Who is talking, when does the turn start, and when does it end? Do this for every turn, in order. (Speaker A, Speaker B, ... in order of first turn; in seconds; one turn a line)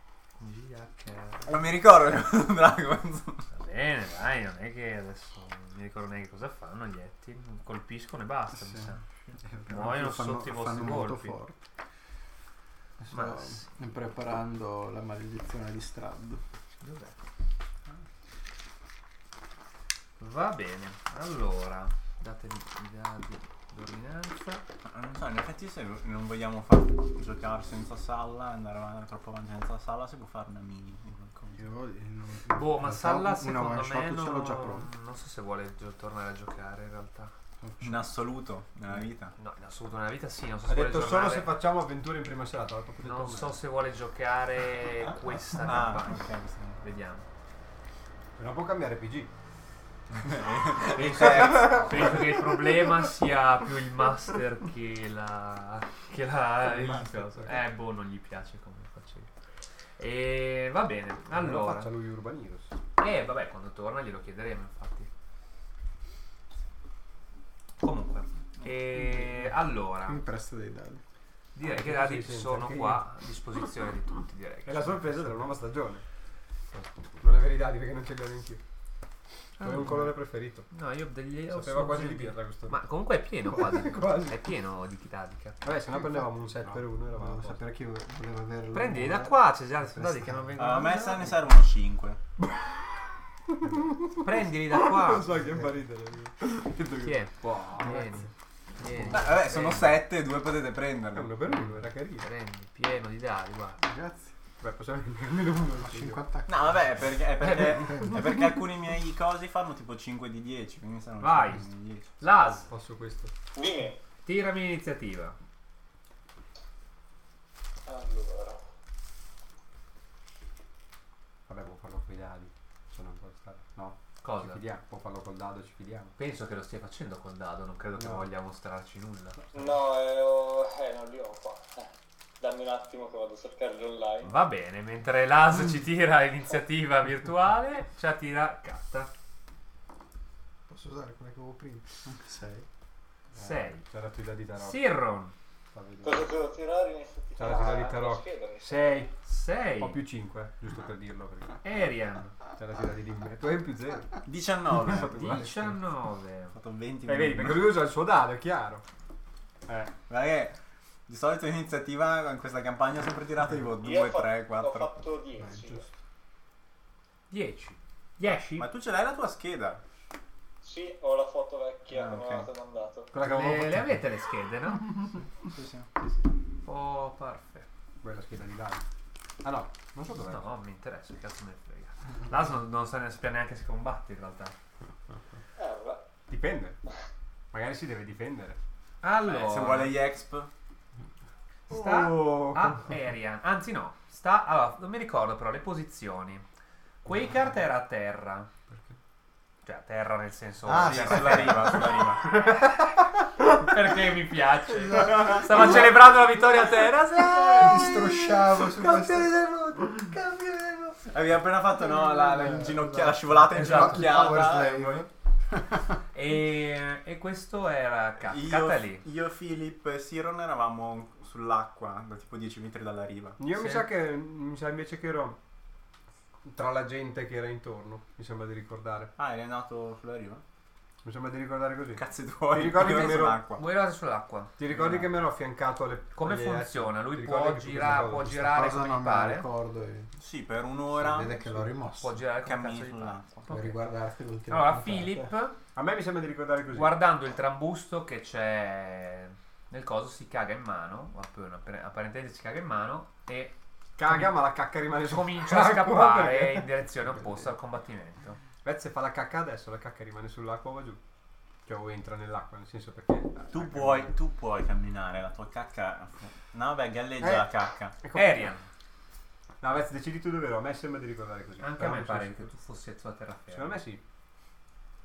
Speaker A: 0.4-1.6
Speaker B: 1.5-3.5
Speaker A: 3.5-9.0
Speaker C: 8.5-11.6
Speaker A: 9.7-11.4
Speaker C: 13.0-16.4
Speaker A: 13.1-13.7
Speaker A: 16.8-17.2
Speaker A: 20.2-24.6
Speaker B: 24.9-31.6
Speaker C: 31.5-34.9
Speaker A: 32.5-37.3
Speaker C: 37.6-38.1
Speaker B: 37.8-39.4
Speaker A: 39.4-41.5
Speaker D: 40.7-43.6
Speaker A: 43.0-46.3
Speaker B: 45.6-46.8
Speaker A: 46.8-47.2
Speaker D: 48.4-49.3
Speaker B: 50.2-52.3
Speaker A: 50.7-59.3
Speaker C: 56.8-57.1
Speaker A: 60.0-61.9
Speaker D: 61.3-62.7
Speaker A: 63.0-65.1
Speaker A: 67.8-70.2
Speaker C: 70.0-71.0
Speaker A: 71.5-75.3
Speaker D: 71.7-73.1
Speaker D: 74.7-76.0
Speaker D: 76.7-78.6
Speaker A: 79.6-80.2
Speaker D: 79.6-80.7
Speaker A: 80.7-85.6
Speaker D: 81.5-84.4
Speaker D: 85.6-87.8
Speaker C: 85.8-90.5
Speaker A: 88.7-91.4
Speaker B: 90.6-92.2
Speaker D: 92.4-92.7
Speaker D: 93.5-98.0
Speaker A: 94.2-95.4
Speaker A: 96.9-100.0
Speaker C: 97.8-98.2
Speaker B: 99.0-101.3
Speaker D: 101.1-102.3
Speaker A: 101.5-103.8
Speaker C: 103.8-104.3
Speaker D: 104.6-106.2
Speaker C: 105.8-106.7
Speaker B: 106.5-112.2
Speaker A: 107.4-108.1
Speaker A: 111.2-111.7
Speaker A: 112.2-112.7
Speaker D: 112.7-113.3
Speaker E: 113.5-114.0
Speaker A: 114.2-115.4
Speaker E: 117.9-118.6
Speaker D: 121.5-126.2
Speaker A: 124.2-124.6
Speaker A: 126.2-129.4
Speaker D: 128.0-128.3
Speaker E: 129.5-131.9
Speaker E: 132.4-134.3
Speaker A: 134.2-139.1
Speaker C: 140.7-142.7
Speaker D: 143.3-144.8
Speaker A: 143.4-143.8
Speaker A: 144.6-145.3
Speaker D: 145.7-146.3
Speaker E: 146.0-149.1
Speaker D: 147.4-149.2
Speaker A: 149.2-150.0
Speaker D: 149.8-151.6
Speaker A: 151.6-152.4
Speaker D: 152.6-155.8
Speaker B: 154.2-155.5
Speaker A: 154.9-156.6
Speaker B: 156.5-157.8
Speaker D: 157.1-158.8
Speaker D: 159.7-159.9
Speaker B: 160.1-165.0
Speaker E: 163.8-165.9
Speaker C: 165.4-165.9
Speaker A: 167.3-168.7
Speaker B: 168.6-169.8
Speaker E: 170.6-173.1
Speaker B: 171.9-172.5
Speaker D: 173.1-174.0
Speaker A: 173.2-175.0
Speaker B: 175.4-175.9
Speaker D: 176.0-176.2
Speaker A: 176.6-177.7
Speaker D: 178.0-178.8
Speaker D: 179.4-180.4
Speaker A: 180.2-184.6
Speaker E: 185.6-186.0
Speaker D: 186.3-186.8
Speaker D: 187.5-188.6
Speaker A: 189.0-190.0
Speaker B: 189.2-190.5
Speaker A: 191.7-196.4
Speaker D: 191.7-192.9
Speaker A: 197.0-198.5
Speaker A: 199.6-201.8
Speaker C: 200.7-202.1
Speaker B: 200.8-202.4
Speaker A: 203.4-208.2
Speaker C: 205.0-205.8
Speaker C: 207.4-209.3
Speaker D: 208.7-210.5
Speaker B: 211.1-215.1
Speaker C: 212.2-215.1
Speaker A: 213.5-214.4
Speaker A: 216.1-219.0
Speaker B: 218.2-223.4
Speaker D: 223.4-225.4
Speaker A: 223.5-223.9
Speaker D: 226.4-229.1
Speaker B: 229.2-230.4
Speaker D: 231.0-233.4
Speaker B: 232.0-233.6
Speaker A: 232.8-234.5
Speaker D: 234.6-238.4
Speaker B: 234.7-235.1
Speaker A: 236.2-239.5
Speaker C: 238.3-240.1
Speaker B: 240.2-241.7
Speaker C: 240.9-242.2
Speaker A: 242.0-243.8
Speaker B: 242.4-243.5
Speaker C: 243.5-245.3
Speaker A: 244.5-245.6
Speaker D: 245.8-247.0
Speaker A: 246.7-254.5
Speaker D: 254.0-256.8
Speaker A: 255.0-258.4
Speaker D: 258.6-261.0
Speaker D: 261.7-264.1
Speaker B: 263.5-268.0
Speaker D: 267.2-267.5
Speaker D: 268.0-268.5
Speaker A: 268.1-268.7
Speaker D: 269.6-272.5
Speaker A: 271.6-273.8
Speaker D: 273.5-274.0